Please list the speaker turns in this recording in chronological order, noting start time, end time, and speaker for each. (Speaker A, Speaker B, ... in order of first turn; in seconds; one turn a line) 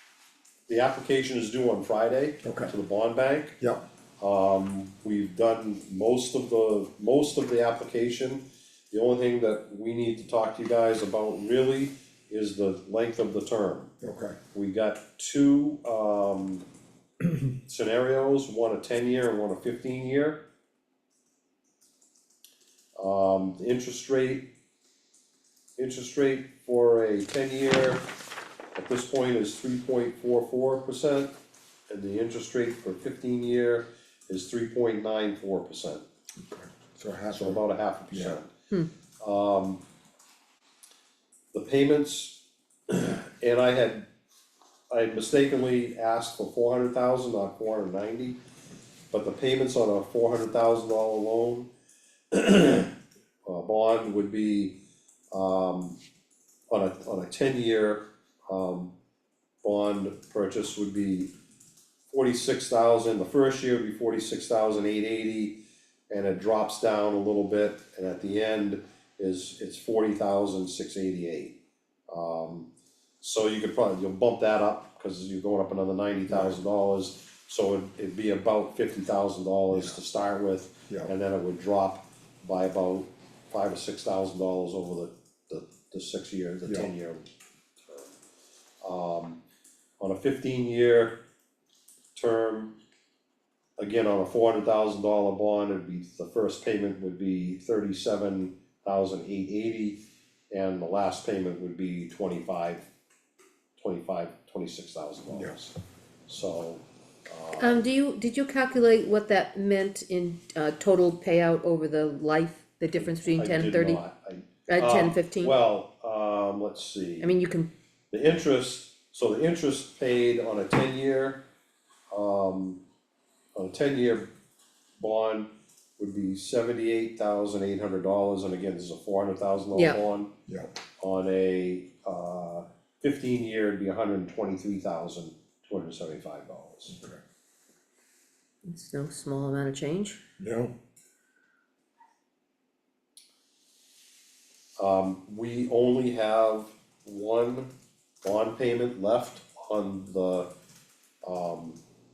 Speaker A: 0.7-3.6
Speaker B: 2.4-2.7
Speaker A: 4.2-13.9
Speaker B: 14.0-14.4
Speaker A: 14.5-16.6
Speaker A: 17.6-20.4
Speaker A: 23.0-24.5
Speaker A: 25.8-28.0
Speaker A: 28.7-31.3
Speaker A: 31.9-36.0
Speaker B: 36.4-38.4
Speaker A: 37.3-38.5
Speaker A: 39.2-39.8
Speaker A: 41.5-44.1
Speaker A: 44.9-48.4
Speaker A: 49.1-51.7
Speaker A: 52.3-52.9
Speaker A: 53.5-54.8
Speaker A: 55.3-56.0
Speaker A: 56.7-58.9
Speaker A: 59.6-61.3
Speaker A: 62.1-71.6
Speaker A: 72.1-72.7
Speaker A: 73.2-87.3
Speaker B: 76.3-76.5
Speaker B: 79.7-80.0
Speaker B: 86.6-86.9
Speaker A: 87.8-88.1
Speaker A: 88.8-89.4
Speaker A: 90.0-91.2
Speaker A: 92.1-92.7
Speaker A: 93.8-102.8
Speaker A: 103.8-105.7
Speaker A: 106.3-107.8
Speaker C: 107.6-114.0
Speaker A: 113.0-117.3
Speaker C: 114.7-115.5
Speaker C: 117.2-117.7
Speaker A: 118.1-121.4
Speaker A: 122.1-122.8
Speaker A: 123.5-124.3
Speaker A: 125.0-130.3
Speaker C: 129.7-130.0
Speaker A: 131.0-137.0
Speaker C: 138.6-140.2
Speaker B: 140.4-140.7
Speaker A: 144.8-147.7
Speaker A: 148.2-150.5
Speaker A: 151.2-151.8